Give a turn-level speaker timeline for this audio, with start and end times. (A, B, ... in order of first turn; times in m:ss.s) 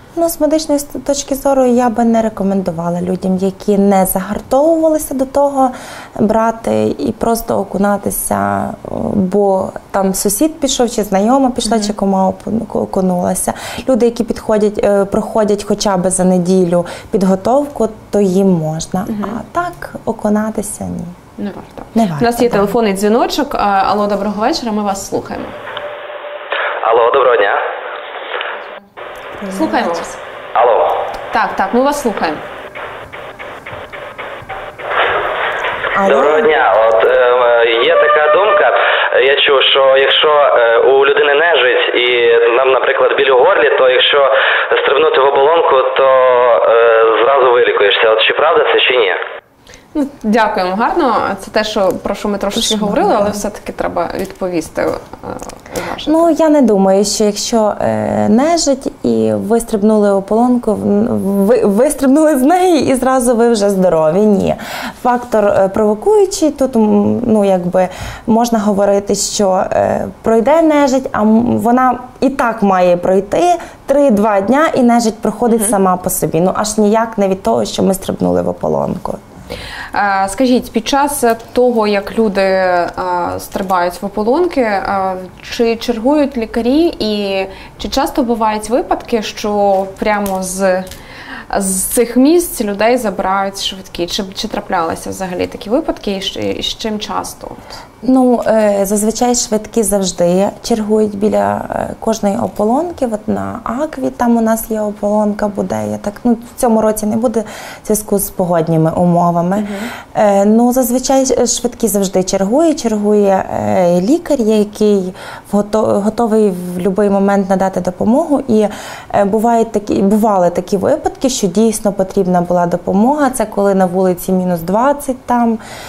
0:00.2-0:21.2 A
0:19.1-0:19.4 B
0:21.4-0:25.6 B
0:22.0-0:22.8 A
0:26.8-0:27.6 C
0:29.4-0:30.2 A
0:29.5-0:30.1 B
0:30.6-0:31.0 C
0:31.3-0:32.4 B
0:35.9-0:36.5 A
0:36.0-0:49.2 C
0:49.9-0:56.3 B
0:52.5-0:53.4 A
0:56.1-1:19.2 A
1:19.9-1:30.9 B
1:31.5-1:37.8 B
1:38.0-2:05.6 A
1:49.6-1:49.9 B